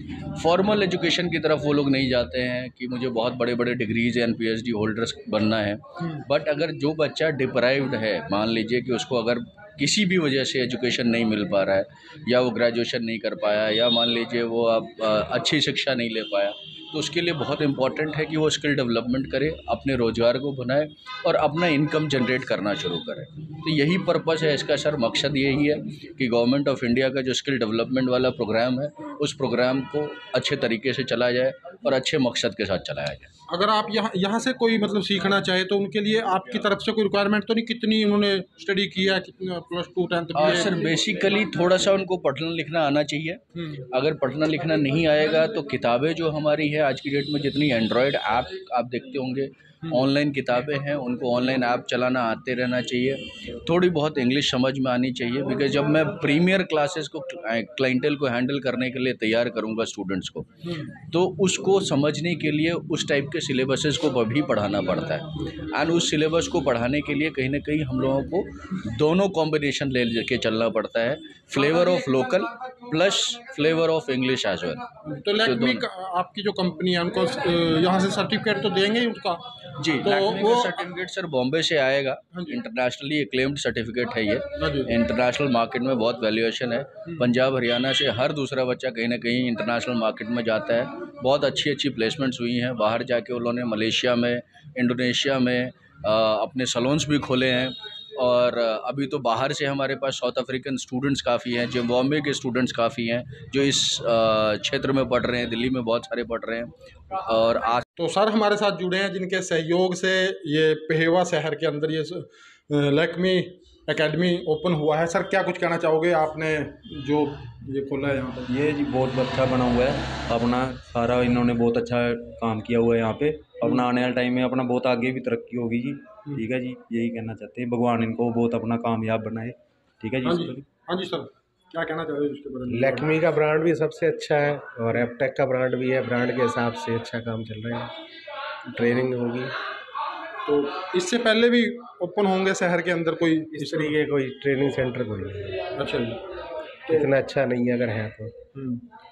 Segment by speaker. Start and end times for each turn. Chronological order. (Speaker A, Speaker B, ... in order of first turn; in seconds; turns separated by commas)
Speaker A: 0.3-33.3, Speaker B: 33.5-40.7, Speaker A: 40.4-60.5, Speaker A: 61.1-74.8, Speaker B: 75.0-79.4, Speaker A: 75.4-75.8, Speaker A: 79.8-107.8, Speaker B: 80.0-80.8, Speaker B: 82.3-82.6, Speaker B: 84.6-84.9, Speaker B: 108.0-118.5, Speaker C: 118.5-130.7, Speaker B: 130.2-133.1, Speaker D: 132.7-137.9, Speaker D: 138.7-139.5, Speaker B: 140.4-144.0, Speaker D: 143.5-145.7, Speaker B: 145.8-146.2, Speaker D: 146.9-148.3, Speaker B: 148.5-148.8